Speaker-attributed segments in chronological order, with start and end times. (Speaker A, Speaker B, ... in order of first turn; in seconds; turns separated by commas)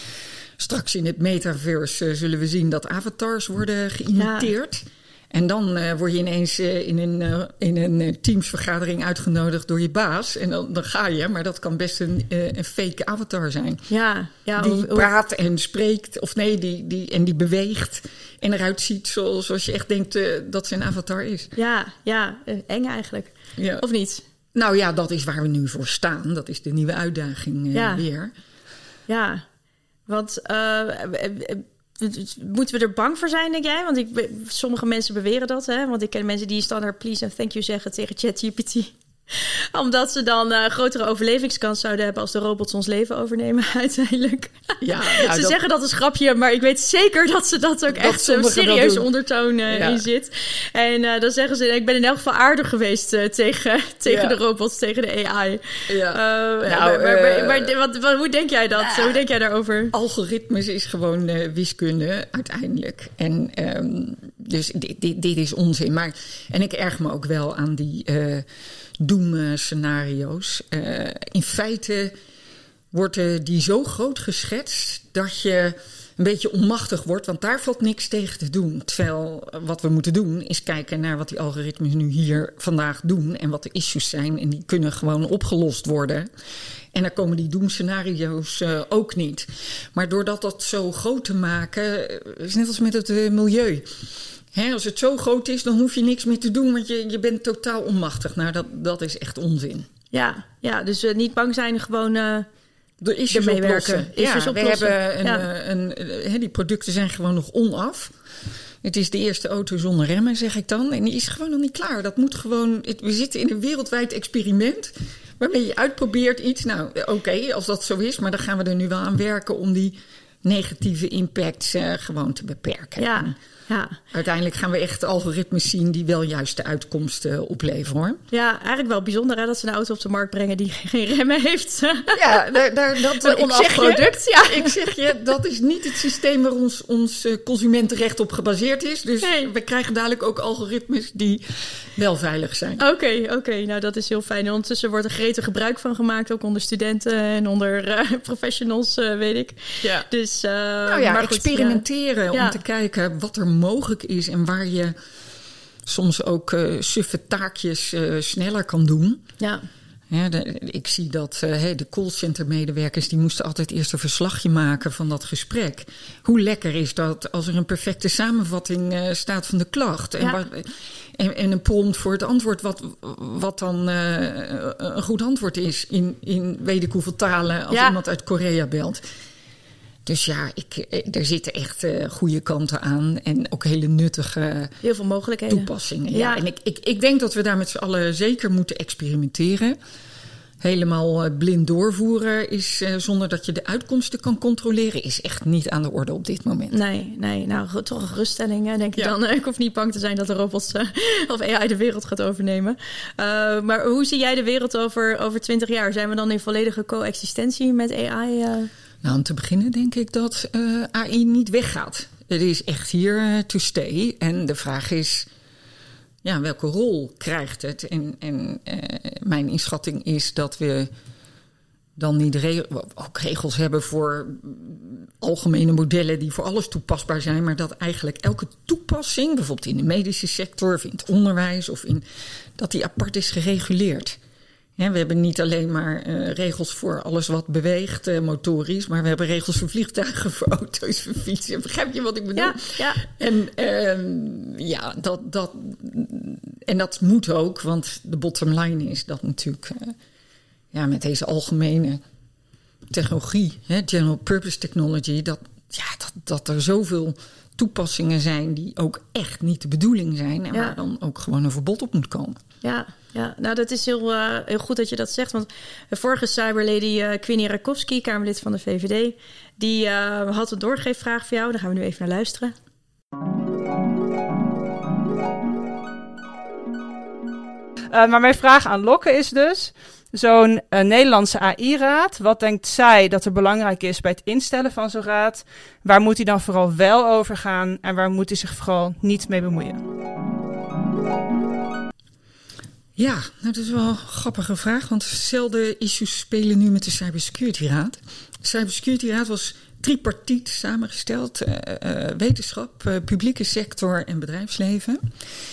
Speaker A: 0.6-13.8, Speaker B: 4.2-4.5, Speaker B: 13.9-15.1, Speaker A: 14.6-21.5, Speaker B: 21.6-24.2, Speaker A: 23.6-23.8, Speaker A: 24.5-28.3, Speaker B: 27.7-28.0, Speaker B: 29.1-29.4, Speaker B: 30.1-59.9, Speaker A: 44.8-45.6, Speaker A: 47.9-49.1, Speaker A: 49.7-50.0, Speaker A: 54.1-54.4, Speaker A: 55.9-57.7, Speaker A: 58.9-59.2, Speaker A: 59.9-68.5, Speaker A: 69.0-72.1, Speaker A: 72.9-86.3, Speaker A: 86.9-93.9, Speaker A: 94.5-99.9, Speaker B: 100.1-102.5, Speaker A: 103.0-108.1, Speaker B: 103.3-105.5, Speaker A: 108.8-123.4, Speaker B: 123.0-124.0, Speaker A: 124.1-128.2, Speaker B: 128.3-134.8, Speaker A: 132.1-142.8, Speaker B: 139.2-139.5, Speaker B: 142.8-152.6, Speaker A: 150.9-154.9, Speaker A: 155.8-159.2, Speaker A: 160.1-179.0, Speaker B: 177.7-178.0, Speaker A: 180.1-184.7, Speaker B: 184.8-186.4, Speaker A: 185.5-189.8, Speaker A: 190.6-196.8, Speaker B: 196.7-208.7, Speaker A: 209.0-215.3, Speaker A: 216.2-220.9, Speaker A: 222.0-232.0, Speaker A: 232.6-234.2, Speaker A: 234.8-250.0, Speaker B: 242.4-243.0, Speaker A: 250.7-252.0, Speaker A: 252.9-262.4, Speaker B: 260.5-260.8, Speaker B: 262.6-272.6, Speaker C: 277.9-289.8, Speaker A: 293.0-305.0